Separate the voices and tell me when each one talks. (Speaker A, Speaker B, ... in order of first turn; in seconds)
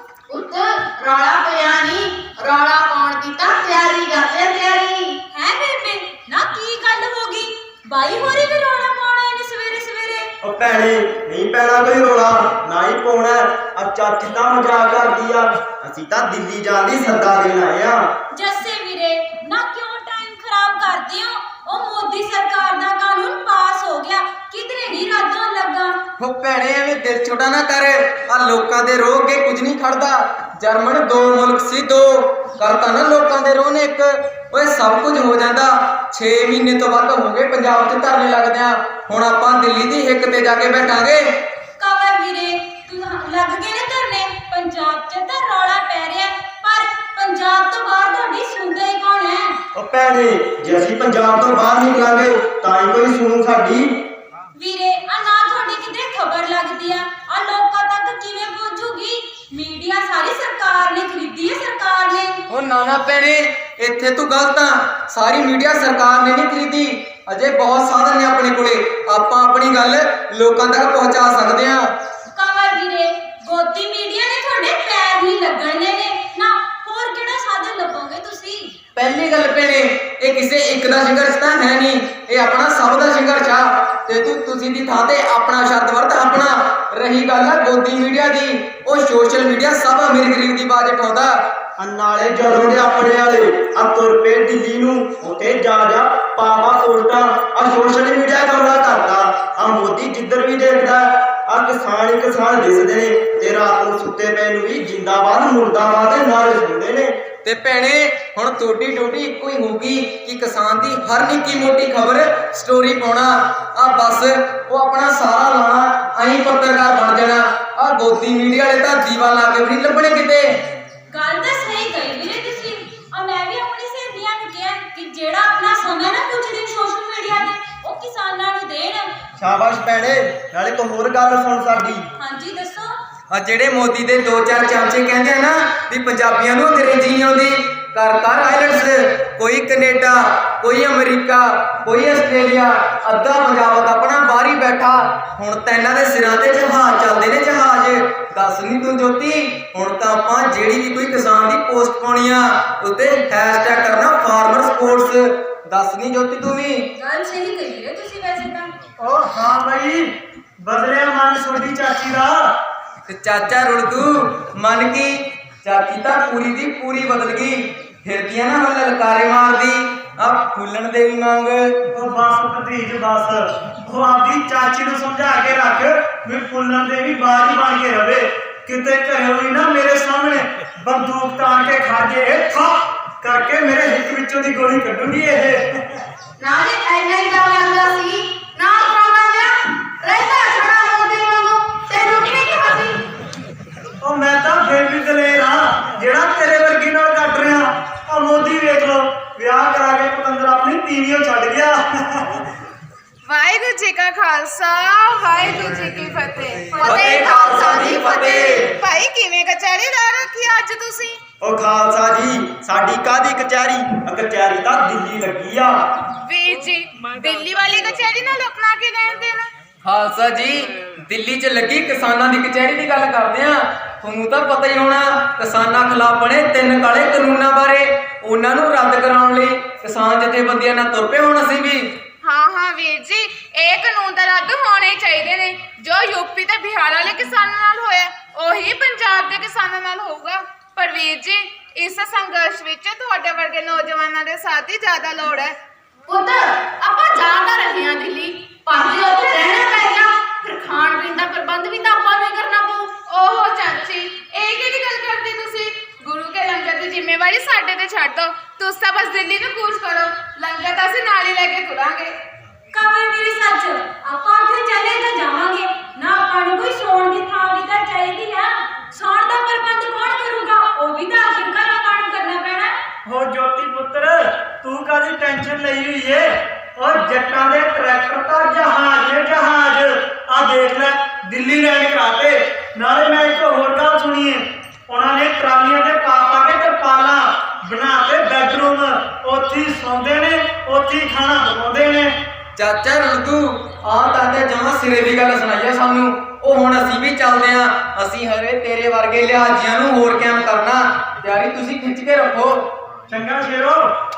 Speaker A: 0.3-5.2, 186.4-193.0, 246.1-253.0
Speaker B: 5.3-10.3, 18.3-26.0, 41.8-49.6, 54.5-62.4, 72.3-78.8, 121.1-129.1, 132.2-132.9, 156.9-158.7, 262.7-272.7
Speaker C: 10.4-18.1, 49.7-53.9, 91.8-107.1, 129.4-132.1, 211.4-215.8
Speaker D: 26.2-41.3, 62.5-71.9, 79.0-91.4, 107.4-120.6, 133.3-156.9, 163.1-171.8, 206.9-208.6, 219.8-231.9, 292.6-302.7
Speaker E: 159.0-160.1, 160.6-162.3, 171.9-185.9, 194.0-202.4, 273.0-292.1, 303.1-303.8
Speaker F: 203.3-211.2, 216.2-219.5, 232.2-245.5, 253.0-262.1